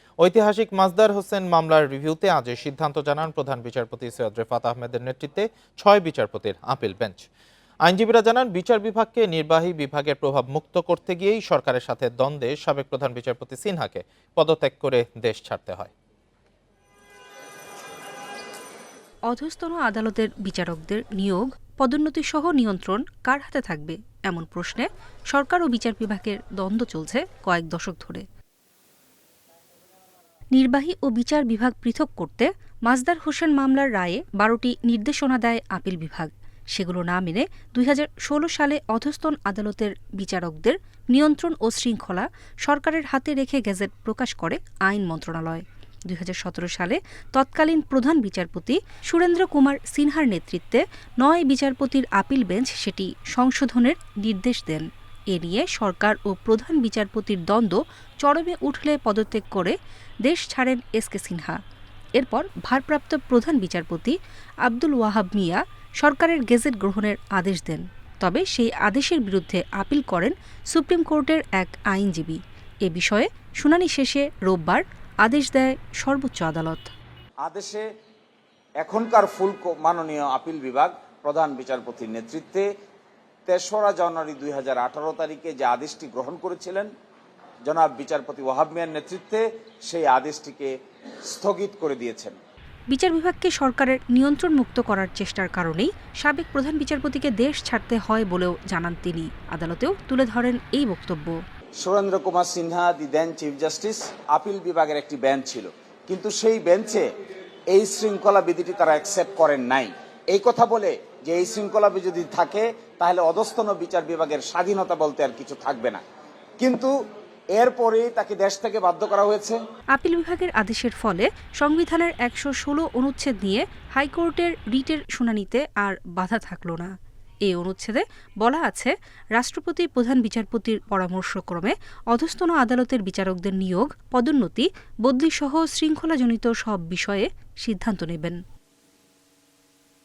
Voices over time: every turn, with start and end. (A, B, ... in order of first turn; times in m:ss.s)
0:00.2-0:07.3 A
0:07.8-0:15.9 A
0:19.3-0:28.2 B
0:30.6-1:01.6 B
1:02.2-1:16.9 B
1:17.4-1:17.9 C
1:18.8-1:22.7 C
1:23.5-1:26.9 C
1:27.7-1:30.8 C
1:31.3-1:32.4 C
1:32.9-1:41.4 B
1:41.8-1:47.1 C
1:47.7-1:56.0 C
1:56.6-1:57.0 C
1:57.5-1:59.6 C
2:00.0-2:06.9 B
2:07.4-2:18.4 B